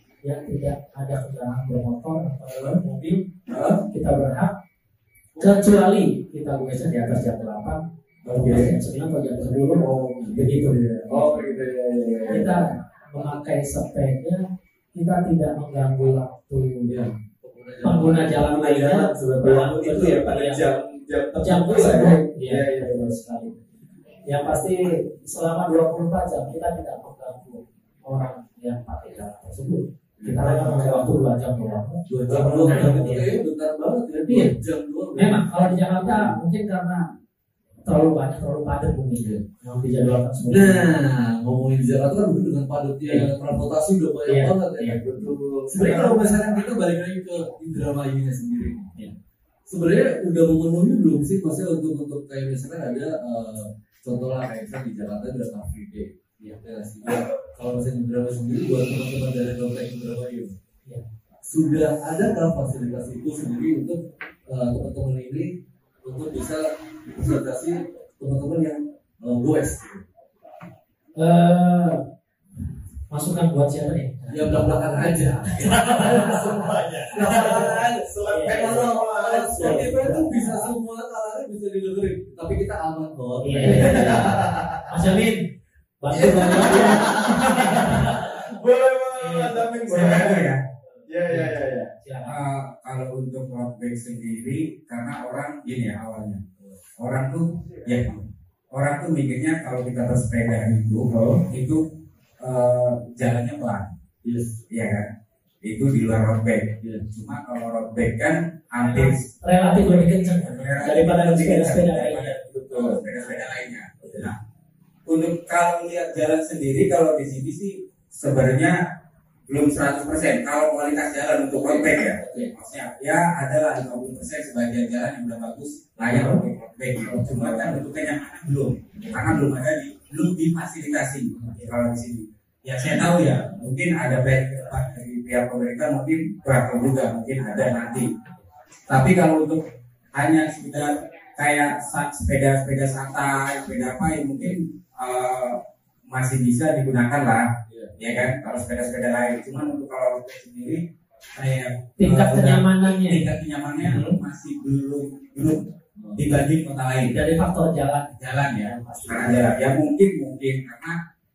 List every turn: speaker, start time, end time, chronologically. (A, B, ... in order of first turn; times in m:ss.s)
0:00.2-0:03.3 A
0:02.5-0:02.8 B
0:03.5-0:03.8 B
0:03.9-0:04.6 A
0:05.4-0:05.6 C
0:05.4-0:10.8 A
0:08.2-0:08.8 B
0:09.7-0:12.7 B
0:11.1-0:11.4 C
0:12.3-0:17.0 A
0:16.9-0:18.5 C
0:17.8-0:20.7 A
0:18.5-0:23.1 B
0:21.4-0:23.6 A
0:24.3-0:33.4 A
0:30.2-0:31.1 C
0:32.1-0:36.4 C
0:34.3-0:34.6 A
0:35.2-0:37.1 A
0:37.8-0:40.9 A
0:39.2-0:39.4 C
0:40.5-0:48.9 C
0:44.3-0:45.0 A
0:45.0-0:46.5 B
0:49.7-1:00.6 C
1:01.4-1:05.5 C
1:06.0-1:10.0 C
1:11.2-1:12.0 A
1:13.1-1:16.6 A
1:14.3-1:16.6 C
1:15.9-1:20.0 B
1:17.1-1:24.5 C
1:17.3-1:17.7 A
1:18.3-1:18.9 A
1:19.5-1:20.6 A
1:23.4-1:25.4 A
1:23.6-1:24.9 B
1:26.0-1:28.3 A
1:26.1-1:30.6 B
1:29.2-1:29.7 A
1:29.9-1:30.6 D
1:31.1-1:31.9 B
1:31.3-1:32.4 A
1:32.2-1:36.4 D
1:37.0-1:41.8 D
1:41.1-1:41.4 B
1:42.4-1:44.0 D
1:44.2-1:44.6 C
1:44.7-1:45.1 D
1:45.6-1:49.3 D
1:46.8-1:47.1 C
1:48.8-1:52.4 A
1:50.4-1:54.4 D
1:52.5-1:53.3 B
1:55.1-1:58.8 D
1:59.5-2:18.1 D
2:06.1-2:06.4 B
2:07.1-2:07.8 B
2:09.0-2:09.3 C
2:11.3-2:11.7 C
2:18.9-2:19.6 D
2:20.1-2:30.8 D
2:27.7-2:27.9 C
2:31.3-2:37.2 D
2:32.0-2:33.2 A
2:33.8-2:34.2 B
2:36.0-2:36.2 C
2:37.1-2:39.6 A
2:38.2-2:41.0 D